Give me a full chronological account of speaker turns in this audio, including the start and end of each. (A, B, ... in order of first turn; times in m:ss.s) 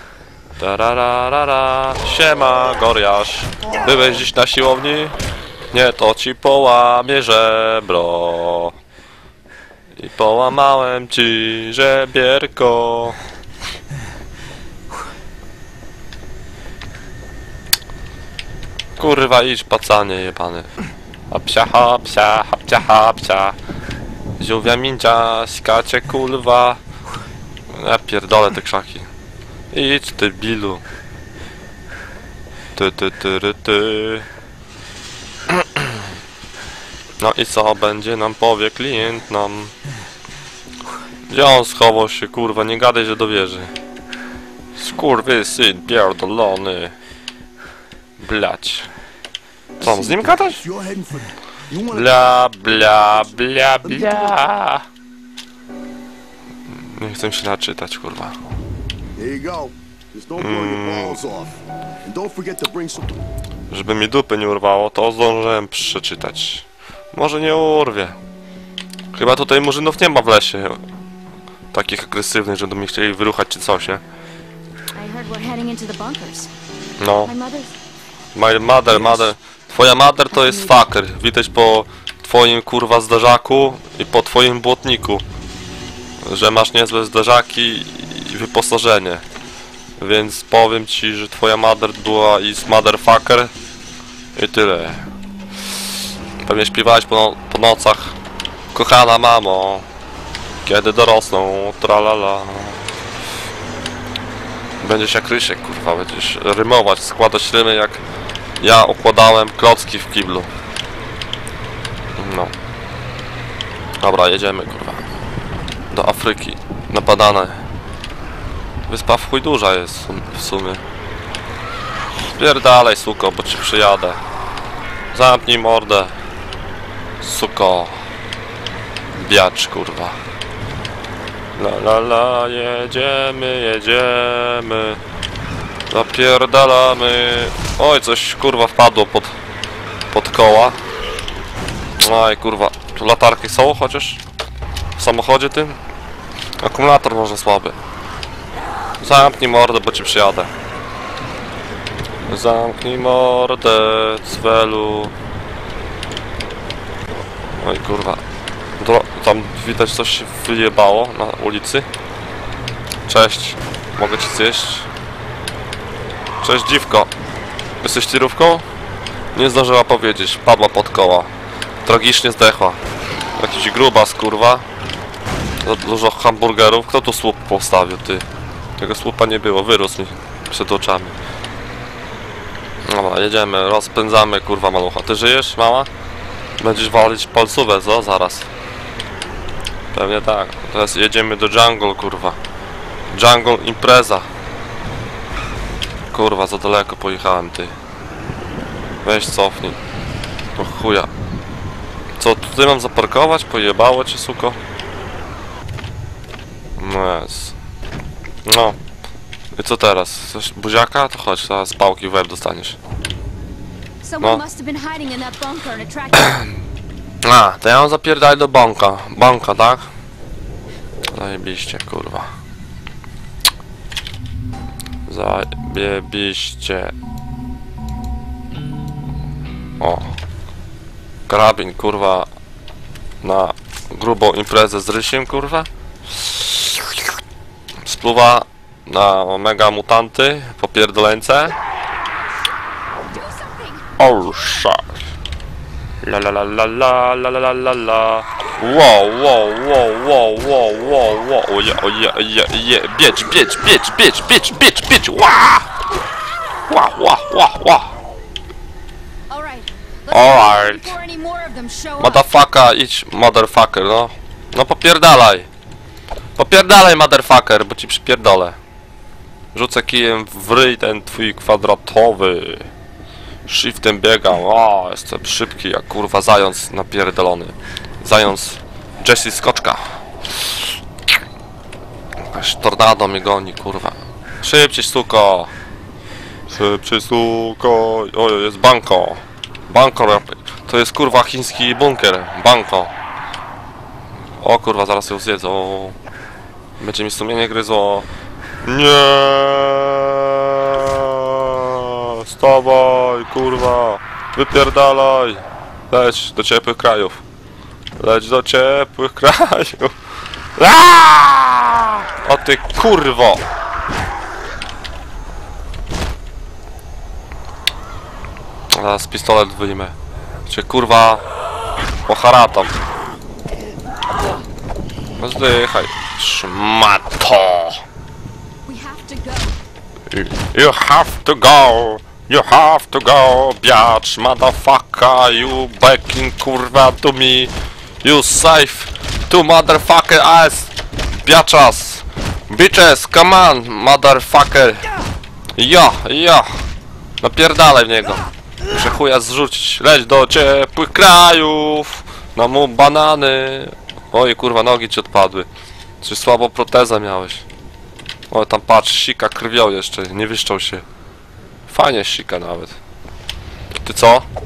0:00.6-0:05.2 A
0:05.7-0:08.7 A
0:10.0-0:13.2 A
0:19.0-0:20.7 A
0:21.3-0:23.6 A
0:24.4-0:26.8 A
0:27.7-0:29.1 A
0:29.7-0:30.8 A
0:32.8-0:34.2 A
0:37.2-0:39.7 A
0:41.3-0:43.7 A
0:44.8-0:46.9 A
0:48.2-0:48.9 A
0:49.8-0:50.6 A
0:49.8-0:53.3 B
0:51.9-0:54.8 A
0:53.8-0:54.4 B
0:56.7-0:58.3 A
0:59.2-1:03.1 B
1:00.4-1:01.2 A
1:03.7-1:08.2 A
1:09.1-1:10.8 A
1:11.7-1:14.0 A
1:14.9-1:16.5 C
1:17.0-1:17.3 A
1:17.2-1:17.7 C
1:18.3-1:25.2 A
1:18.9-1:19.3 C
1:20.3-1:20.8 C
1:26.2-1:29.2 A
1:30.0-1:33.5 A
1:34.4-1:35.1 A
1:36.4-1:38.1 A
1:38.7-1:39.8 A
1:40.6-1:42.8 A
1:44.8-1:48.0 A
1:48.6-1:50.5 A
1:52.2-1:52.5 A
1:54.0-1:55.0 A
1:55.9-1:57.6 A
1:58.9-2:00.8 A
2:02.3-2:04.2 A
2:05.1-2:06.1 A
2:07.2-2:08.0 A
2:09.2-2:10.2 A
2:11.6-2:15.0 A
2:15.9-2:19.3 A
2:20.1-2:20.8 A
2:22.0-2:24.2 A
2:25.0-2:25.8 A
2:26.6-2:27.8 A
2:29.0-2:30.5 A
2:32.3-2:35.1 A
2:37.6-2:38.2 A
2:38.8-2:41.8 A
2:43.1-2:44.9 A
2:46.4-2:47.1 A
2:47.8-2:48.6 A
2:49.3-2:51.3 A
2:51.8-2:52.8 A
2:53.4-2:54.6 A
2:55.6-2:58.2 A
2:58.8-3:01.1 A
3:02.8-3:05.9 A
3:06.6-3:08.5 A
3:09.9-3:12.4 A
3:13.1-3:14.3 A
3:16.1-3:17.7 A
3:19.0-3:19.8 A
3:20.6-3:21.1 A
3:22.2-3:24.6 A
3:26.8-3:27.5 A
3:28.4-3:28.8 A
3:29.5-3:32.8 A
3:34.0-3:36.4 C
3:37.2-3:39.9 A
3:41.1-3:42.3 A
3:45.1-3:46.9 A
3:49.8-3:50.1 A
3:51.3-3:52.3 A
3:53.2-3:56.9 A
3:57.8-4:01.6 A
4:03.1-4:03.8 C
4:04.0-4:04.8 A
4:06.0-4:15.7 A
4:16.7-4:17.9 A
4:19.3-4:22.3 C
4:20.1-4:20.9 A
4:22.0-4:25.5 A
4:26.4-4:28.6 A
4:29.5-4:32.7 A
4:33.5-4:39.8 A
4:42.2-4:45.5 A
4:46.5-4:52.9 A
4:54.4-4:56.0 A
4:56.8-4:58.0 A
4:58.6-5:07.2 A
5:08.0-5:09.9 A
5:10.6-5:13.4 A
5:18.7-5:19.9 A
5:20.5-5:21.2 A
5:22.1-5:22.7 A
5:25.2-5:27.8 A
5:28.6-5:29.5 C
5:30.1-5:37.5 A
5:38.0-5:44.9 A
5:45.6-5:46.5 A
5:47.2-5:55.5 A
5:56.0-5:57.4 A
5:58.3-6:00.8 A
6:01.7-6:02.8 A
6:03.8-6:04.3 A